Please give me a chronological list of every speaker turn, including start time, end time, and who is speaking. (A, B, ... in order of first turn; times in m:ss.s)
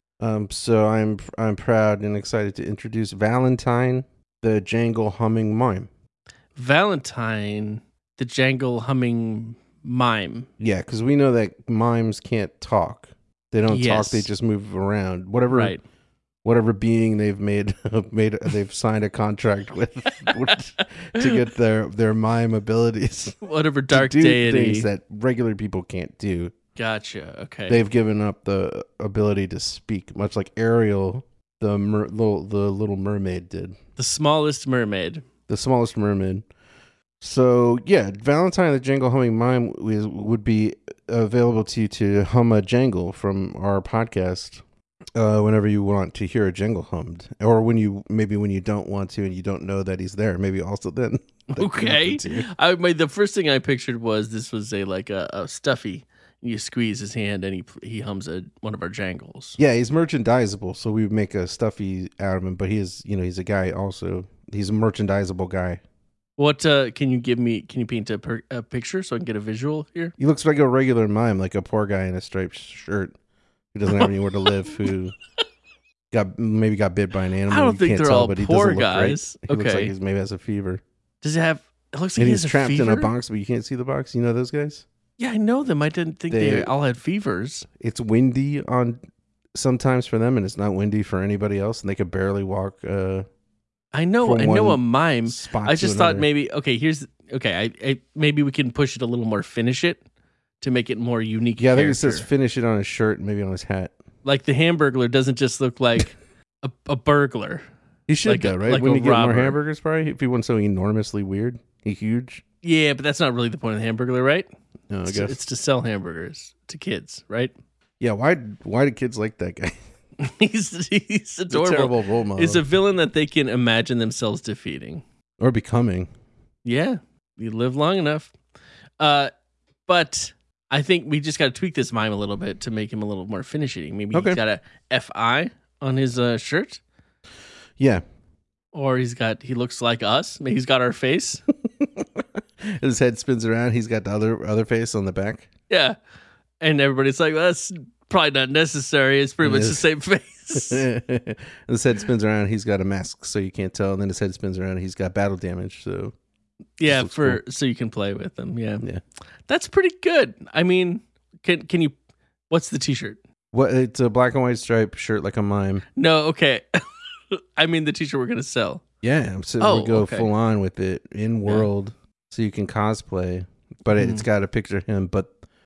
0:00.2-0:05.9 A
0:06.6-0:10.5 B
0:10.6-0:15.8 A
0:13.7-0:14.3 B
0:15.5-0:15.8 B
0:16.4-0:23.4 A
0:23.4-0:24.9 B
0:23.9-0:26.5 A
0:26.8-0:27.8 B
0:27.7-0:33.8 A
0:34.0-0:35.2 B
0:35.5-0:36.5 A
0:37.2-0:44.6 A
0:45.2-0:52.5 A
0:51.5-0:59.6 B
0:59.6-1:05.8 A
1:06.4-1:10.2 B
1:10.2-1:13.2 A
1:13.7-1:15.1 A
1:16.1-1:20.8 A
1:17.5-1:19.9 B
1:21.2-1:23.1 B
1:22.2-1:24.9 A
1:25.2-1:27.7 B
1:26.3-1:26.7 A
1:27.8-1:29.0 A
1:29.5-1:33.2 A
1:33.9-1:40.0 B
1:34.2-1:36.3 A
1:40.6-1:42.3 B
1:41.6-1:44.0 A
1:44.2-1:47.6 B
1:48.1-1:52.4 A
1:48.2-1:49.6 B
1:52.6-1:54.5 B
1:54.9-1:55.4 A
1:55.1-1:57.5 B
1:58.0-1:59.8 A
2:00.2-2:05.0 B
2:01.5-2:02.6 A
2:05.4-2:06.1 A
2:06.6-2:08.3 B
2:09.0-2:09.3 B
2:09.9-2:16.8 B
2:14.1-2:14.4 A
2:17.8-2:18.0 A
2:18.7-2:21.4 B
2:21.6-2:25.5 A
2:25.7-2:26.0 B
2:26.6-2:30.9 B
2:29.4-2:29.8 A
2:30.5-2:36.2 A
2:36.8-2:38.8 B
2:36.9-2:37.4 A
2:39.5-2:42.0 B
2:42.5-2:43.2 B
2:43.5-2:45.8 A
2:46.0-2:48.8 B
2:49.0-2:55.3 A
2:49.6-2:50.3 B
2:54.0-2:54.3 B